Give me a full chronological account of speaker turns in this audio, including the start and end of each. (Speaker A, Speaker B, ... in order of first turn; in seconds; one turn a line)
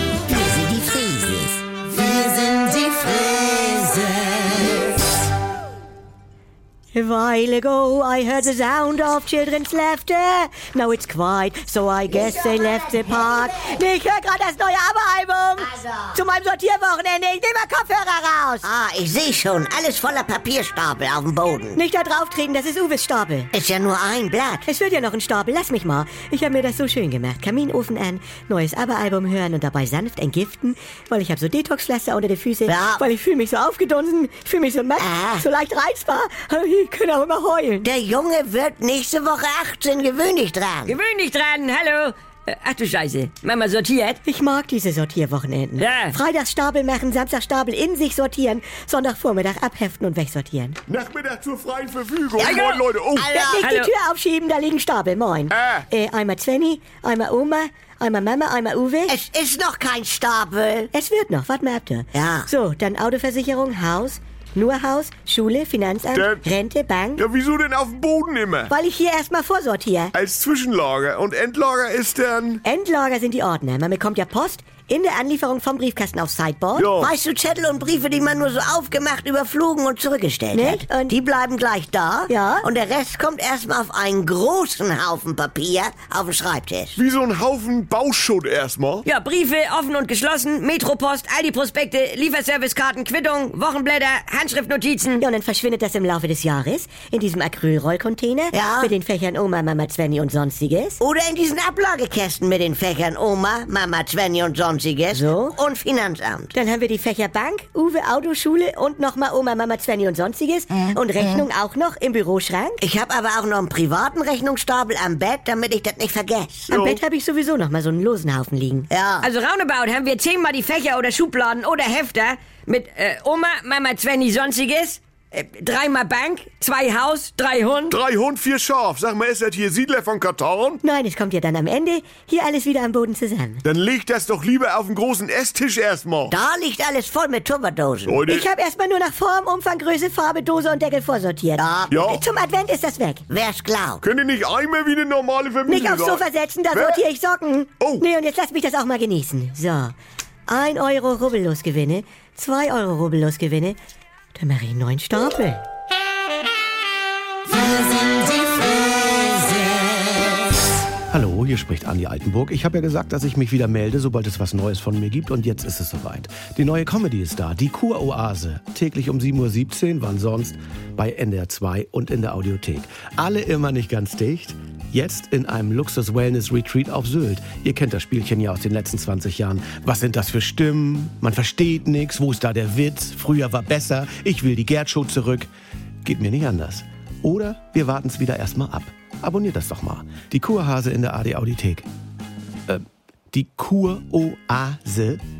Speaker A: 0.3-4.8
Speaker B: 6.9-18.7
Speaker A: 12.1-13.8
Speaker A: 15.6-16.2
Speaker A: 18.6-21.8
Speaker B: 21.7-23.5
Speaker A: 23.5-24.6
Speaker B: 24.6-37.9
Speaker A: 32.7-33.0
Speaker A: 35.0-35.4
Speaker A: 37.8-40.9
Speaker C: 40.9-44.2
Speaker B: 44.2-50.8
Speaker C: 45.8-46.1
Speaker D: 50.9-53.3
Speaker A: 52.4-53.7
Speaker C: 52.4-52.8
Speaker B: 53.3-59.1
Speaker C: 53.6-53.9
Speaker D: 55.6-55.8
Speaker A: 59.1-60.9
Speaker B: 60.9-67.2
Speaker A: 62.1-62.5
Speaker D: 66.1-66.4
Speaker D: 67.2-68.7
Speaker B: 68.7-70.1
Speaker D: 70.1-72.6
Speaker B: 72.6-77.0
Speaker D: 76.8-77.1
Speaker A: 77.0-87.0
Speaker B: 80.5-81.2
Speaker B: 82.3-82.7
Speaker D: 87.0-89.0
Speaker C: 89.0-95.2
Speaker B: 95.2-101.0
Speaker A: 98.5-98.9
Speaker A: 101.0-106.5
Speaker B: 105.1-105.5
Speaker B: 106.5-112.8
Speaker A: 112.8-116.7
Speaker B: 116.7-118.9
Speaker A: 118.9-119.3
Speaker C: 119.2-128.0
Speaker D: 127.9-130.8
Speaker B: 130.8-133.6
Speaker D: 133.6-136.3
Speaker A: 136.3-138.2
Speaker D: 138.1-138.4
Speaker B: 138.3-143.2
Speaker A: 141.6-142.2
Speaker D: 141.9-142.2
Speaker A: 143.3-144.0
Speaker D: 144.0-147.0
Speaker B: 145.7-149.9
Speaker B: 150.5-153.8
Speaker B: 154.3-155.6
Speaker E: 161.1-185.5
Speaker E: 186.0-191.9
Speaker E: 192.7-195.2